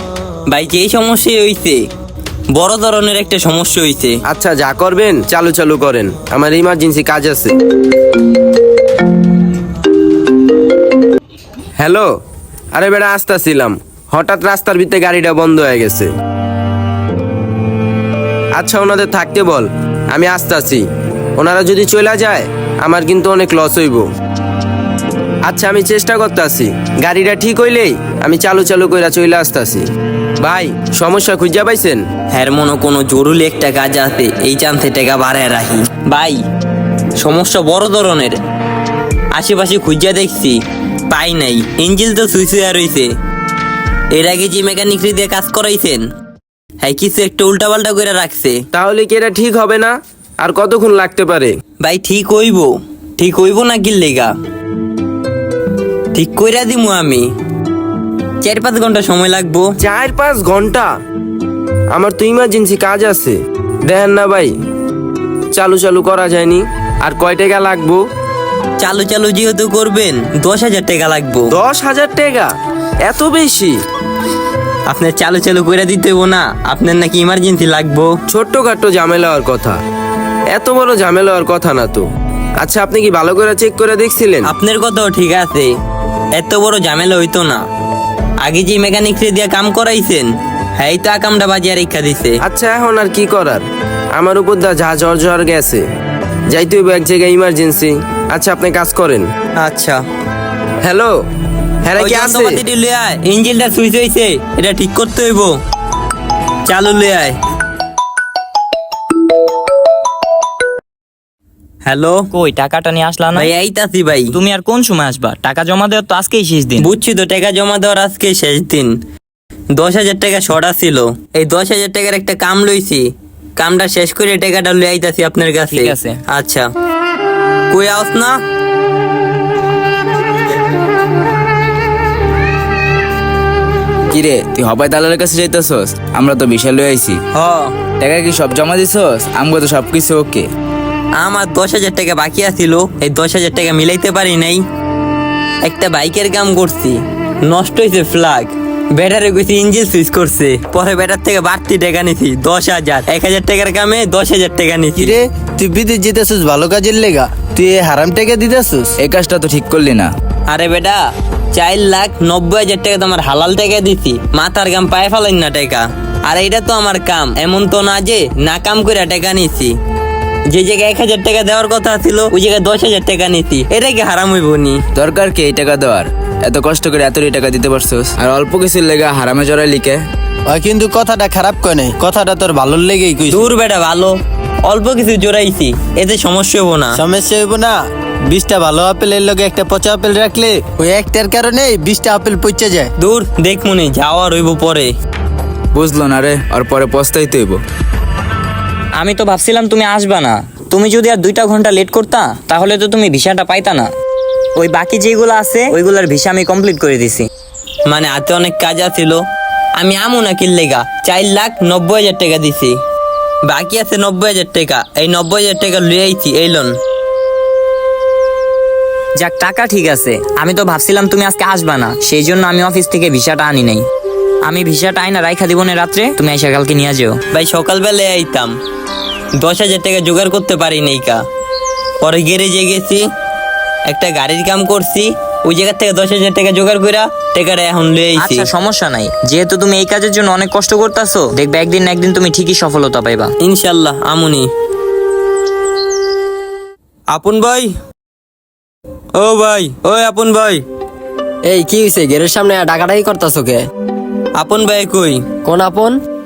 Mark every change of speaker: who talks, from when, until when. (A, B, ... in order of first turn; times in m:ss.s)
0:00.5-0:01.8 A
0:02.6-0:04.2 A
0:04.3-0:07.5 B
0:11.8-0:12.1 B
0:12.7-0:16.1 B
0:18.6-0:20.8 B
0:21.4-0:24.1 B
0:25.4-0:29.8 B
0:30.4-0:32.0 B
0:32.3-0:36.4 A
0:37.2-0:38.4 A
0:39.4-0:43.1 A
0:44.1-0:46.1 A
0:46.8-0:48.6 A
0:48.7-0:51.5 B
0:51.8-0:54.3 A
0:56.1-0:57.3 A
0:58.4-0:59.7 A
0:59.8-1:00.9 B
1:01.9-1:04.5 B
1:05.5-1:08.0 B
1:08.8-1:11.5 A
1:11.5-1:13.8 B
1:14.9-1:18.2 A
1:18.3-1:19.8 B
1:20.5-1:22.1 B
1:22.6-1:24.5 B
1:24.4-1:25.7 A
1:26.3-1:27.6 A
1:28.4-1:32.4 A
1:32.4-1:33.6 B
1:34.2-1:35.8 B
1:36.5-1:39.3 B
1:39.6-1:40.0 A
1:40.8-1:41.2 B
1:41.8-1:42.6 B
1:42.0-1:45.6 A
1:46.7-1:47.4 A
1:51.8-1:52.3 A
1:52.3-1:53.5 C
1:53.4-1:54.4 A
1:54.3-1:56.9 C
1:56.8-1:59.0 A
1:59.7-2:06.7 A
2:05.7-2:06.2 C
2:07.7-2:08.4 A
2:14.1-2:17.2 D
2:17.3-2:17.7 A
2:18.0-2:20.5 D
2:21.2-2:24.6 A
2:25.6-2:35.2 A
2:35.0-2:39.0 E
2:39.0-2:40.1 D
2:40.5-2:41.0 A
2:41.5-2:49.7 A
2:50.5-2:54.8 A
2:55.0-3:00.0 D
3:00.5-3:03.5 E
3:03.3-3:07.0 A
3:06.9-3:12.9 E
3:13.0-3:14.9 A
3:15.7-3:17.6 D
3:19.0-3:23.9 C
3:24.6-3:27.3 C
3:27.9-3:29.2 A
3:29.8-3:32.8 A
3:33.5-3:36.7 A
3:39.2-3:43.8 C
3:44.4-3:47.2 C
3:47.3-3:48.6 A
3:49.4-3:51.2 A
3:52.0-3:53.1 A
3:53.9-3:58.5 A
3:58.2-4:03.3 C
4:03.4-4:04.5 A
4:07.1-4:07.7 A
4:09.2-4:10.6 A
4:11.5-4:13.6 F
4:14.4-4:15.2 A
4:15.4-4:16.0 F